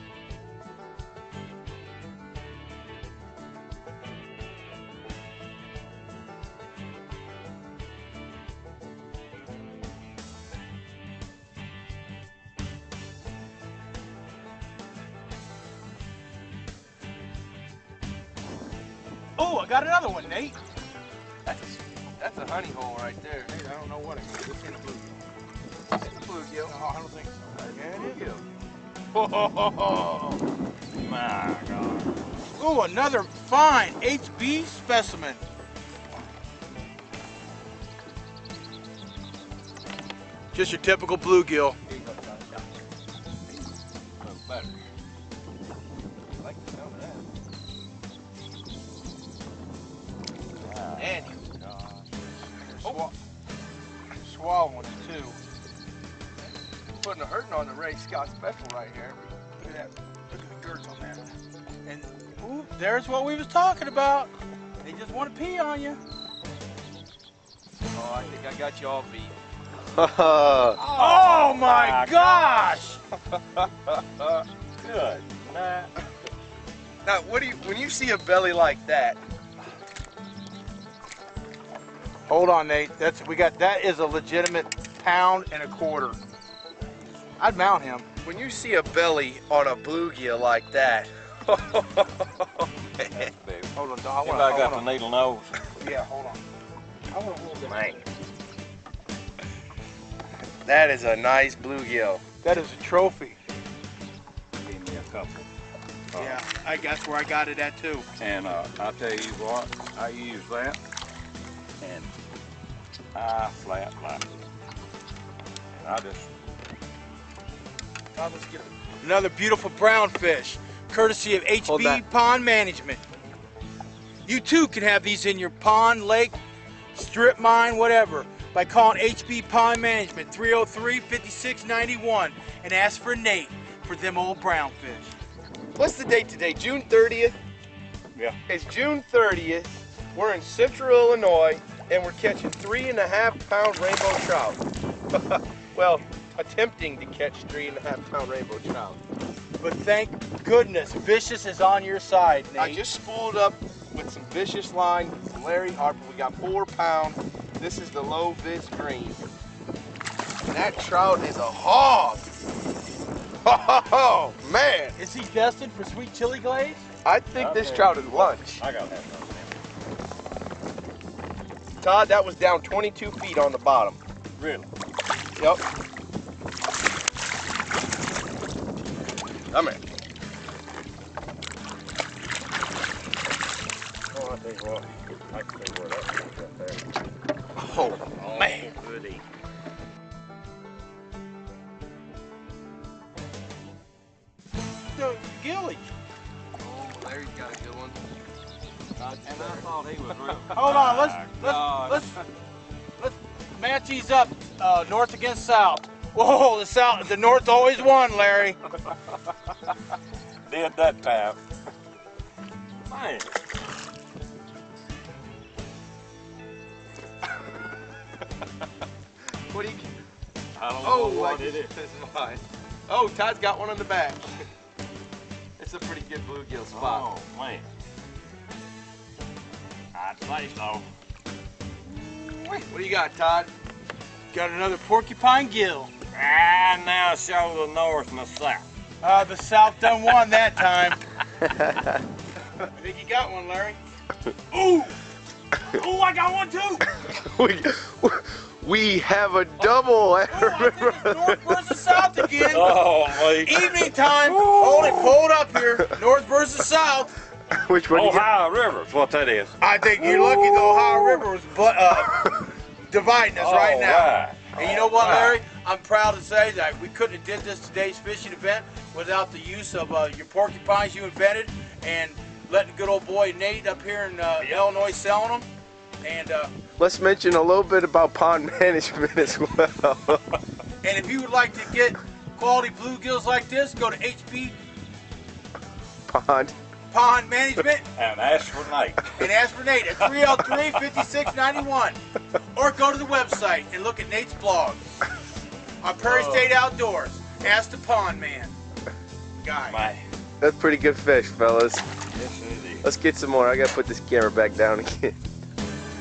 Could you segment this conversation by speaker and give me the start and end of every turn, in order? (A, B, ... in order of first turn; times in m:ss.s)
0:19.4-0:20.6 A
0:21.4-0:23.5 B
0:23.5-0:25.2 A
0:26.0-0:26.7 B
0:26.7-0:28.2 A
0:27.5-0:28.5 B
0:29.3-0:30.0 B
0:31.0-0:32.2 C
0:32.6-0:35.4 A
0:40.5-0:41.8 A
0:41.9-0:42.7 B
0:43.5-0:44.8 C
0:46.4-0:47.3 B
0:50.6-0:52.3 C
0:50.9-0:51.4 B
0:52.7-0:53.2 A
0:54.2-0:55.4 A
0:56.4-0:59.3 B
0:59.6-1:01.3 A
1:01.8-1:06.0 A
1:07.9-1:09.4 B
1:09.9-1:10.8 B
1:10.8-1:12.8 C
1:10.9-1:13.0 A
1:13.3-1:14.4 B
1:14.8-1:15.9 C
1:17.0-1:19.2 B
1:22.3-1:26.2 A
1:27.4-1:28.1 A
1:28.2-1:33.2 B
1:33.1-1:33.7 C
1:33.8-1:34.8 A
1:34.2-1:35.6 C
1:35.8-1:36.4 A
1:37.1-1:37.8 A
1:37.6-1:38.0 C
1:40.6-1:42.2 B
1:42.4-1:43.4 A
1:44.6-1:45.5 C
1:46.1-1:46.4 C
1:46.2-1:48.1 A
1:48.2-1:50.8 C
1:51.8-1:52.1 C
1:53.2-1:54.3 C
1:55.7-1:56.3 C
1:58.1-1:58.7 B
1:59.0-2:03.0 A
2:01.7-2:02.0 B
2:04.2-2:06.4 A
2:06.9-2:15.2 A
2:15.8-2:17.4 B
2:18.5-2:29.0 B
2:29.6-2:32.8 A
2:32.6-2:39.3 B
2:40.5-2:42.3 B
2:43.4-2:45.0 B
2:45.0-2:46.9 A
2:47.0-2:48.6 B
2:47.4-2:49.5 C
2:51.8-2:54.0 B
2:54.4-2:54.7 C
2:55.4-2:55.6 B
2:59.5-2:59.8 B
3:04.1-3:06.9 C
3:07.6-3:08.0 B
3:08.0-3:09.2 C
3:08.4-3:08.7 A
3:14.9-3:15.9 A
3:16.6-3:18.0 B
3:19.0-3:21.6 C
3:19.0-3:19.7 B
3:20.5-3:22.2 A
3:21.4-3:22.1 B
3:23.0-3:28.6 A
3:30.5-3:31.4 C
3:32.8-3:33.4 C
3:39.5-3:39.9 B
3:40.6-3:41.7 C
3:40.8-3:44.3 B
3:45.6-3:47.1 B
3:46.7-3:47.7 C
3:49.9-3:50.9 C
3:51.9-3:52.6 A
3:52.6-3:53.5 B
3:54.3-3:55.9 A
3:56.1-3:58.6 C
3:59.0-4:01.0 A
4:01.4-4:02.0 B
4:02.6-4:03.8 A
4:04.5-4:05.0 A
4:05.6-4:06.9 A
4:06.9-4:12.6 B
4:10.3-4:12.8 A
4:12.5-4:15.1 C
4:13.3-4:17.1 A
4:17.5-4:18.3 B
4:17.9-4:19.5 C
4:19.6-4:35.5 A
4:20.0-4:21.2 B
4:23.4-4:25.3 C
4:24.7-4:25.4 B
4:36.0-4:36.5 A
4:36.8-4:40.2 B
4:40.8-4:44.6 A
4:46.1-4:46.6 B
4:46.9-4:47.8 A
4:48.0-4:49.3 C
4:49.2-4:52.0 A
4:50.0-4:51.0 C
4:52.5-4:54.8 A
4:55.8-4:58.6 A
4:56.0-4:56.5 C
4:59.4-4:59.9 A
4:59.6-5:00.0 C
5:00.4-5:01.8 B
5:02.1-5:02.9 C
5:02.8-5:05.2 B